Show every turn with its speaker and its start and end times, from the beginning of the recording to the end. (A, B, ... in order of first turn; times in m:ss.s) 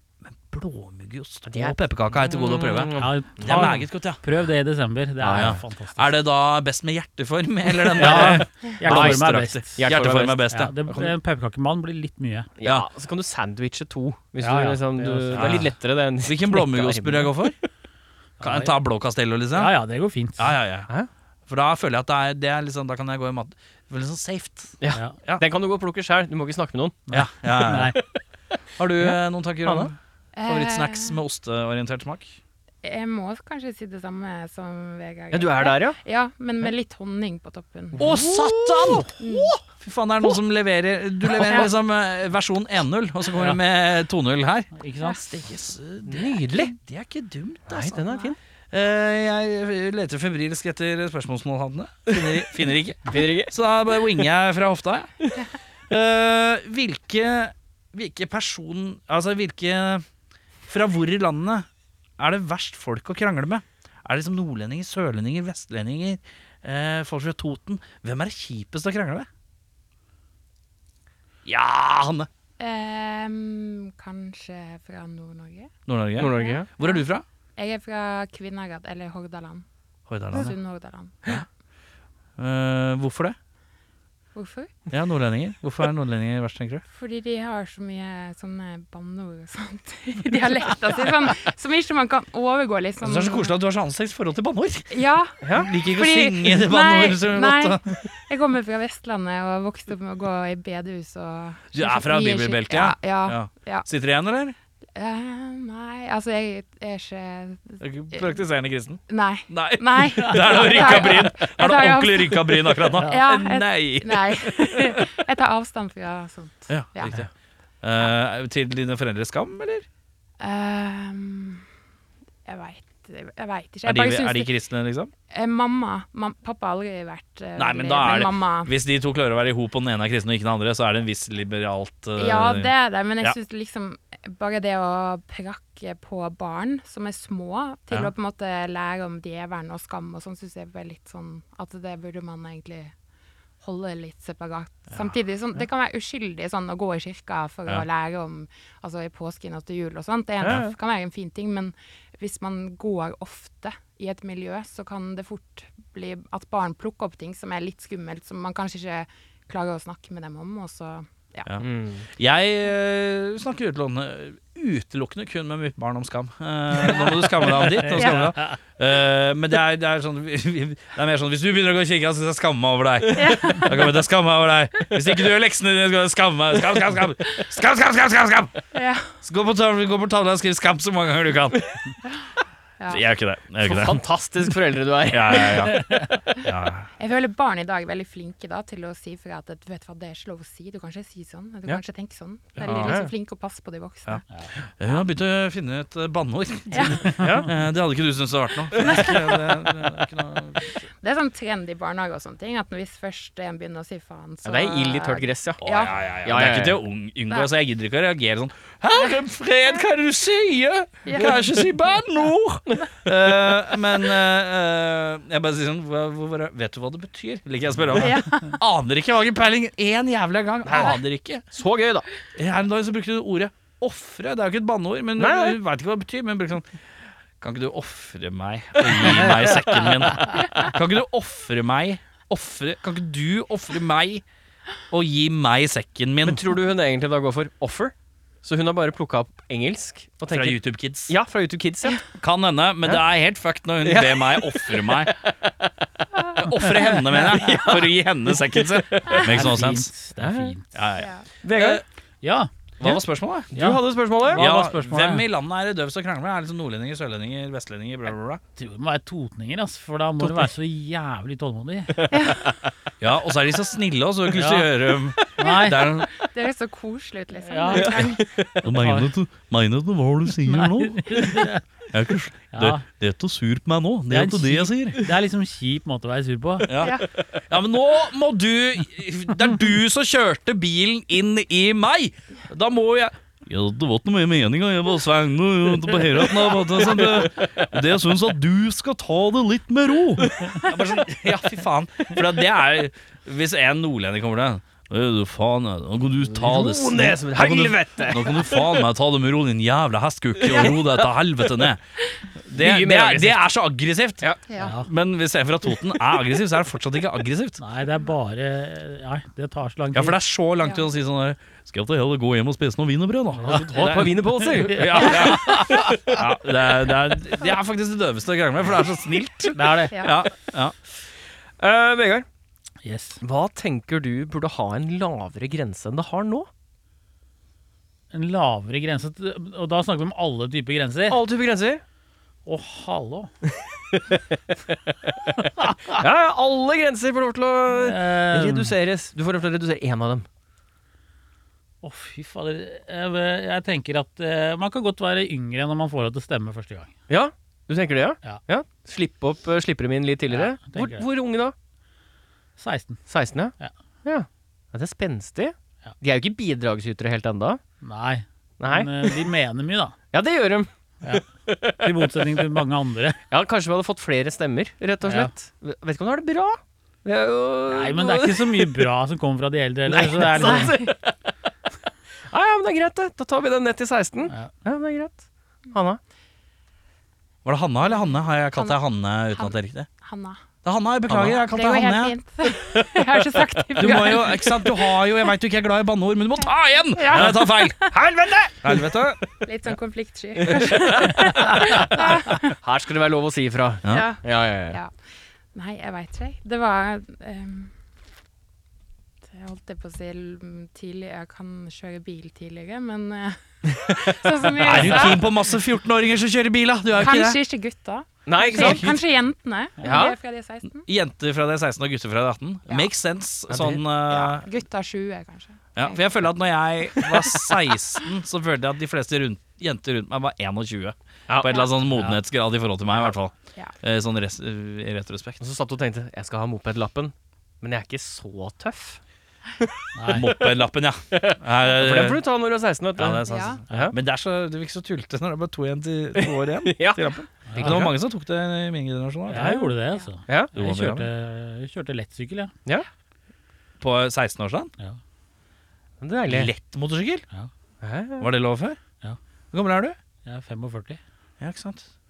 0:00.3-0:04.2 A
0:01.4-0:03.8 B
0:03.0-0:06.1 C
0:05.2-0:05.6 B
0:05.3-0:11.1 A
0:07.9-0:09.2 B
0:07.9-0:10.0 C
0:09.8-0:11.1 B
0:10.5-0:12.5 C
0:12.6-0:17.4 B
0:14.4-0:15.7 C
0:15.3-0:17.6 A
0:18.4-0:18.7 C
0:18.4-0:19.8 A
0:19.6-0:20.6 C
0:20.4-0:20.9 A
0:21.5-0:25.4 A
0:24.8-0:27.0 B
0:27.1-0:28.0 C
0:27.1-0:27.9 A
0:27.7-0:28.2 B
0:28.8-0:32.4 A
0:29.0-0:29.9 B
0:30.3-0:31.2 D
0:32.8-0:38.2 D
0:35.3-0:36.0 B
0:38.0-0:39.6 B
0:38.0-0:39.1 A
0:39.2-0:39.6 D
0:39.7-0:48.1 A
0:44.8-0:45.2 C
0:46.1-0:46.8 B
0:47.7-0:48.4 B
0:48.7-0:55.1 A
0:52.1-0:52.5 B
0:53.1-0:54.2 B
0:55.9-1:00.0 A
1:00.7-1:01.7 A
1:02.2-1:09.3 A
1:11.4-1:12.3 A
1:12.6-1:17.0 D
1:15.9-1:17.2 A
1:16.2-1:16.7 B
1:17.6-1:19.6 D
1:20.1-1:20.6 A
1:20.3-1:21.2 D
1:22.4-1:23.4 A
1:24.4-1:24.8 D
1:24.9-1:26.8 A
1:26.9-1:33.5 D
1:33.0-1:35.0 A
1:34.9-1:43.9 D
1:35.4-1:35.7 B
1:35.5-1:38.1 A
1:41.7-1:44.6 A
1:44.9-1:48.4 D
1:47.8-1:55.2 A
1:49.1-1:57.2 D
1:56.7-1:57.3 A
1:57.8-1:59.9 A
2:00.4-2:01.6 D
2:02.4-2:04.5 D
2:03.8-2:05.1 A
2:05.3-2:08.7 D
2:07.6-2:13.4 A
2:12.2-2:22.9 D
2:23.6-2:41.5 D
2:30.4-2:30.8 B
2:41.4-2:58.6 A
2:41.6-2:42.0 B
2:47.9-2:48.3 D
2:47.9-2:48.2 C
2:53.2-2:53.8 D
2:58.7-2:59.1 D
2:59.2-3:01.6 A
3:02.9-3:04.0 A
3:03.6-3:05.8 B
3:05.1-3:06.9 A
3:07.0-3:14.2 D
3:12.6-3:12.9 A
3:12.6-3:13.1 B
3:14.8-3:20.8 A
3:16.7-3:17.2 D
3:17.2-3:17.5 B
3:18.8-3:19.7 D
3:20.9-3:25.9 D
3:24.4-3:26.8 B
3:25.6-3:41.4 A
3:31.1-3:31.6 D
3:38.0-3:38.5 D
3:40.6-3:41.0 B
3:41.5-3:42.1 B
3:42.4-3:46.7 A
3:45.2-3:45.6 B
3:47.4-3:54.2 A
3:48.8-3:50.1 B
3:54.9-3:56.4 A
3:56.2-4:02.0 B
4:00.3-4:01.1 A
4:02.2-4:05.2 A
4:03.8-4:09.3 B
4:06.4-4:09.9 A
4:09.2-4:10.6 C
4:10.2-4:10.6 B
4:10.7-4:11.8 A
4:11.4-4:11.8 B
4:12.2-4:12.5 C
4:12.8-4:13.5 A
4:13.5-4:14.4 B
4:13.5-4:15.2 C
4:14.3-4:18.4 A
4:18.6-4:22.2 C
4:21.9-4:22.5 B
4:22.1-4:22.5 D
4:23.0-4:26.1 A
4:24.4-4:24.6 C
4:25.4-4:25.8 C
4:26.1-4:28.3 D
4:27.4-4:28.1 C
4:27.7-4:28.6 B
4:28.6-4:35.0 A
4:28.6-4:29.1 C
4:30.4-4:31.6 C
4:32.5-4:32.8 C
4:34.1-4:36.7 C
4:36.6-5:01.8 A
4:36.8-4:37.1 D
4:46.8-4:47.5 B
4:56.2-4:58.9 B
5:00.4-5:01.1 B
5:02.4-5:04.2 A
5:02.5-5:03.4 B
5:04.5-5:04.8 D
5:04.6-5:04.9 C
5:04.8-5:07.6 A
5:07.6-5:10.2 C
5:09.9-5:20.8 A
5:13.4-5:16.0 C
5:13.5-5:16.2 B
5:19.6-5:20.0 C
5:21.6-5:22.3 B
5:22.8-5:23.2 C
5:23.2-5:26.5 B
5:28.1-5:31.2 C
5:31.1-5:31.8 B
5:32.4-5:33.3 C
5:33.9-5:34.2 B
5:35.6-5:35.9 C
5:35.9-5:40.3 B
5:37.7-5:38.7 C
5:41.8-5:46.9 C
5:47.1-5:51.5 B
5:50.3-5:51.0 C
5:52.6-5:53.0 C
5:53.1-5:57.6 B
5:57.8-6:00.0 C
5:58.6-5:59.3 B
6:00.1-6:02.4 B
6:01.0-6:03.2 C
6:03.3-6:08.9 B
6:05.0-6:05.3 C
6:07.7-6:10.8 C
6:09.9-6:11.3 B
6:10.4-6:10.9 D
6:12.3-6:16.0 B
6:17.4-6:19.9 A
6:17.9-6:18.8 D
6:19.4-6:20.4 D
6:20.6-6:22.2 A
6:21.2-6:25.0 D
6:23.8-6:27.9 A
6:26.9-6:27.9 D
6:27.1-6:28.8 B
6:28.6-6:29.4 A
6:29.4-6:32.5 D
6:30.4-6:34.8 B
6:33.9-6:34.9 D
6:35.5-6:37.7 D
6:39.3-6:45.3 D
6:43.7-6:45.2 B
6:44.6-6:47.4 A
6:47.0-6:50.9 D
6:48.3-6:49.0 B
6:48.5-6:49.0 A
6:49.8-6:50.2 B
6:50.8-6:54.5 A
6:53.5-6:53.8 B
6:54.1-6:56.0 D
6:55.8-7:05.4 A
7:05.4-7:09.0 B
7:09.6-7:10.6 B
7:09.9-7:10.4 C
7:10.1-7:12.2 A
7:11.1-7:13.9 B
7:13.0-7:19.6 A
7:13.3-7:13.6 D
7:16.1-7:17.9 B
7:17.5-7:17.8 C
7:19.3-7:22.5 C
7:19.3-7:20.5 B
7:20.6-7:21.1 A
7:23.8-7:24.7 A
7:26.0-7:26.5 B
7:26.3-7:27.2 A
7:27.8-7:28.3 B
7:28.2-7:28.8 A
7:29.5-7:30.0 A
7:30.2-7:31.0 C
7:31.4-7:31.9 A